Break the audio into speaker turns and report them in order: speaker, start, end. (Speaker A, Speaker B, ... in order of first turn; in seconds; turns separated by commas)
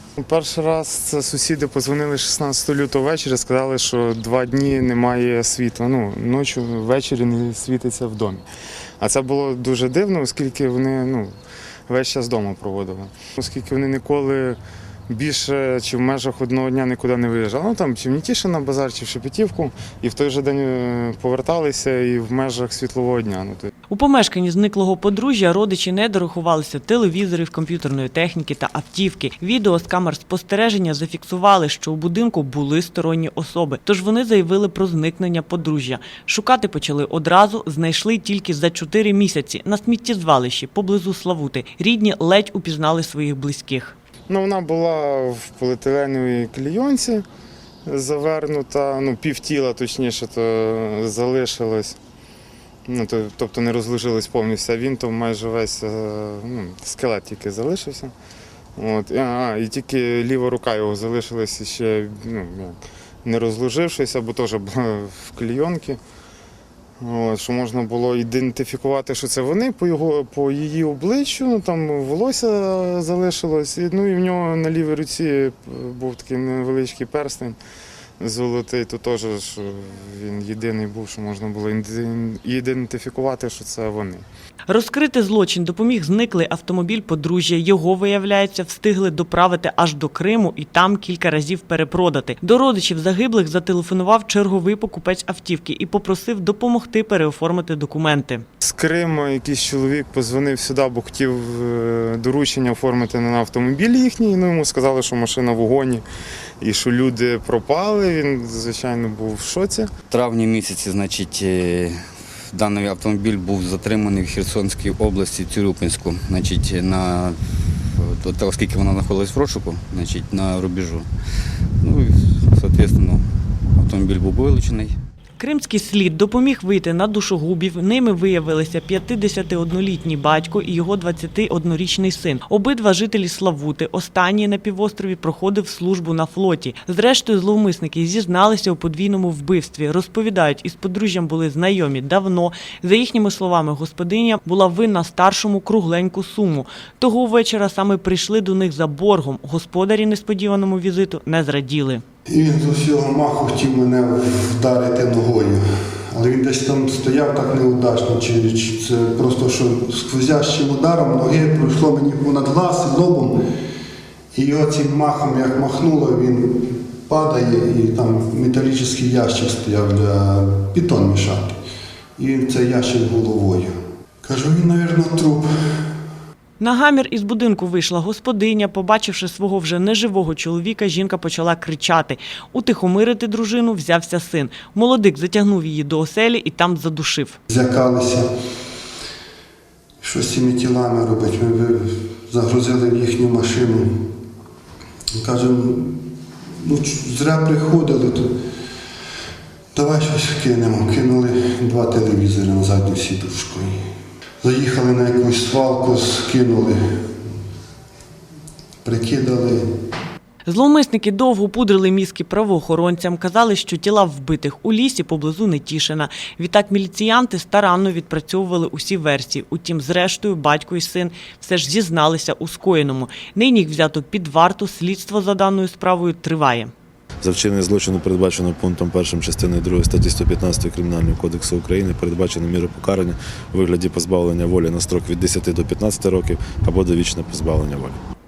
Speaker A: 0.2-8.4, Speaker A: 9.0-11.3, Speaker A: 11.9-23.7, Speaker B: 23.9-43.9, Speaker A: 44.3-47.2, Speaker A: 47.9-52.0, Speaker A: 52.9-58.1, Speaker A: 58.8-66.0, Speaker A: 67.0-77.6, Speaker A: 78.2-84.2, Speaker B: 84.7-98.4, Speaker A: 98.6-106.0, Speaker A: 106.6-109.9, Speaker C: 110.1-112.0, Speaker C: 112.5-117.3, Speaker C: 118.0-121.1, Speaker C: 121.8-123.2, Speaker C: 123.8-124.9, Speaker B: 125.4-152.0, Speaker D: 152.3-163.4, Speaker D: 164.3-171.6, Speaker D: 172.2-175.5, Speaker B: 176.6-187.4, Speaker D: 187.5-188.2, Speaker D: 190.0-193.9, Speaker D: 195.2-196.0, Speaker D: 196.6-198.3, Speaker D: 199.7-203.8, Speaker D: 204.4-206.8, Speaker D: 208.8-209.6, Speaker B: 210.5-226.7, Speaker E: 227.2-238.0